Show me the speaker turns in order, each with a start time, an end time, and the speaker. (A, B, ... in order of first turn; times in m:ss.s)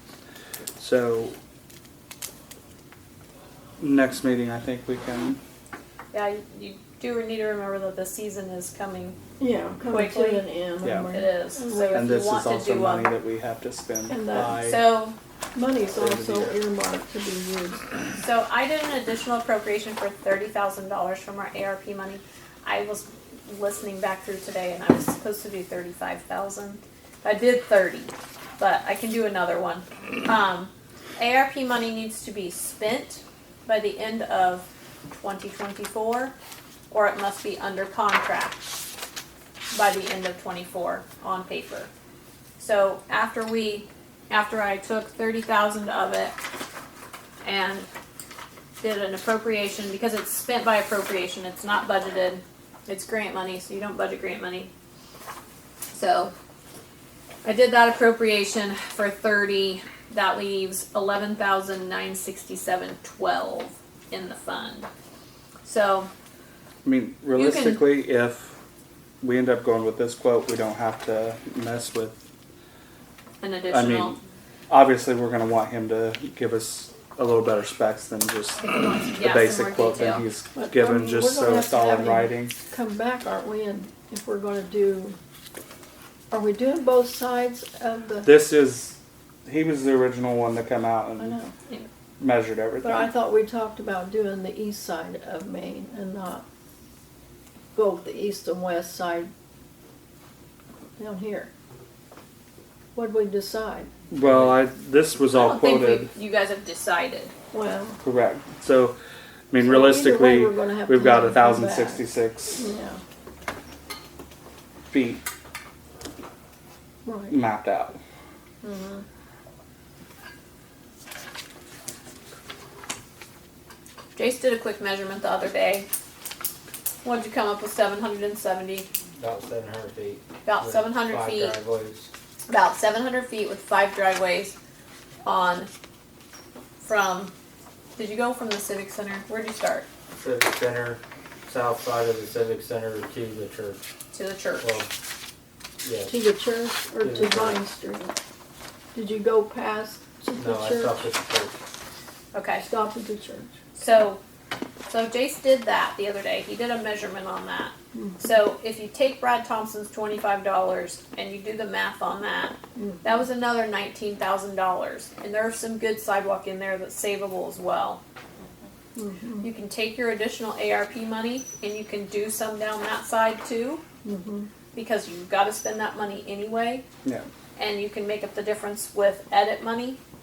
0:00.8-0:01.4 A
0:03.8-0:05.4 A
0:06.1-0:09.2 B
0:09.4-0:12.1 C
0:09.9-0:10.4 B
0:10.8-0:11.1 A
0:11.1-0:13.1 B
0:11.9-0:14.8 A
0:14.1-0:14.7 C
0:14.6-0:15.2 B
0:15.5-0:17.9 C
0:15.9-0:16.6 A
0:18.2-0:36.3 B
0:36.9-0:38.6 B
0:39.7-0:41.9 B
0:42.6-0:46.4 B
0:47.4-0:47.9 B
0:48.8-0:54.7 B
0:55.9-0:56.3 B
0:57.4-1:04.9 B
1:05.6-1:06.1 B
1:06.8-1:08.6 A
1:07.4-1:07.8 B
1:09.2-1:12.2 A
1:13.4-1:14.2 B
1:13.7-1:14.2 A
1:14.7-1:22.6 A
1:18.6-1:20.3 B
1:20.6-1:25.2 C
1:26.3-1:28.3 C
1:28.2-1:31.4 A
1:31.2-1:31.5 C
1:32.2-1:33.1 A
1:32.8-1:36.4 C
1:37.8-1:39.3 C
1:41.0-1:41.5 C
1:43.0-1:43.9 C
1:44.1-1:46.1 A
1:45.3-1:47.3 B
1:47.5-1:48.0 C
1:48.0-1:49.0 A
1:49.5-1:52.6 A
1:49.6-1:53.0 C
1:54.9-1:55.2 A
1:57.0-1:57.4 C
1:57.3-1:58.0 A
1:58.6-1:59.0 B
2:04.2-2:05.9 B
2:07.0-2:08.9 B
2:09.2-2:12.1 D
2:10.4-2:11.6 B
2:12.5-2:14.6 B
2:15.2-2:15.7 B
2:16.8-2:17.3 B
2:18.0-2:19.9 B
2:20.3-2:21.0 D
2:21.5-2:23.8 D
2:24.1-2:24.7 B
2:24.6-2:24.9 D
2:25.8-2:26.1 D
2:26.1-2:28.2 C
2:27.0-2:27.5 D
2:28.9-2:31.0 C
2:30.5-2:31.6 D
2:32.3-2:32.7 B
2:32.6-2:33.5 C
2:33.8-2:34.2 B
2:34.9-2:48.0 B
2:37.9-2:38.2 C
2:42.8-2:43.2 C
2:49.0-2:49.5 C
2:49.4-2:53.8 B
2:54.0-2:54.5 C
2:54.7-2:56.8 B
2:57.6-3:00.0 B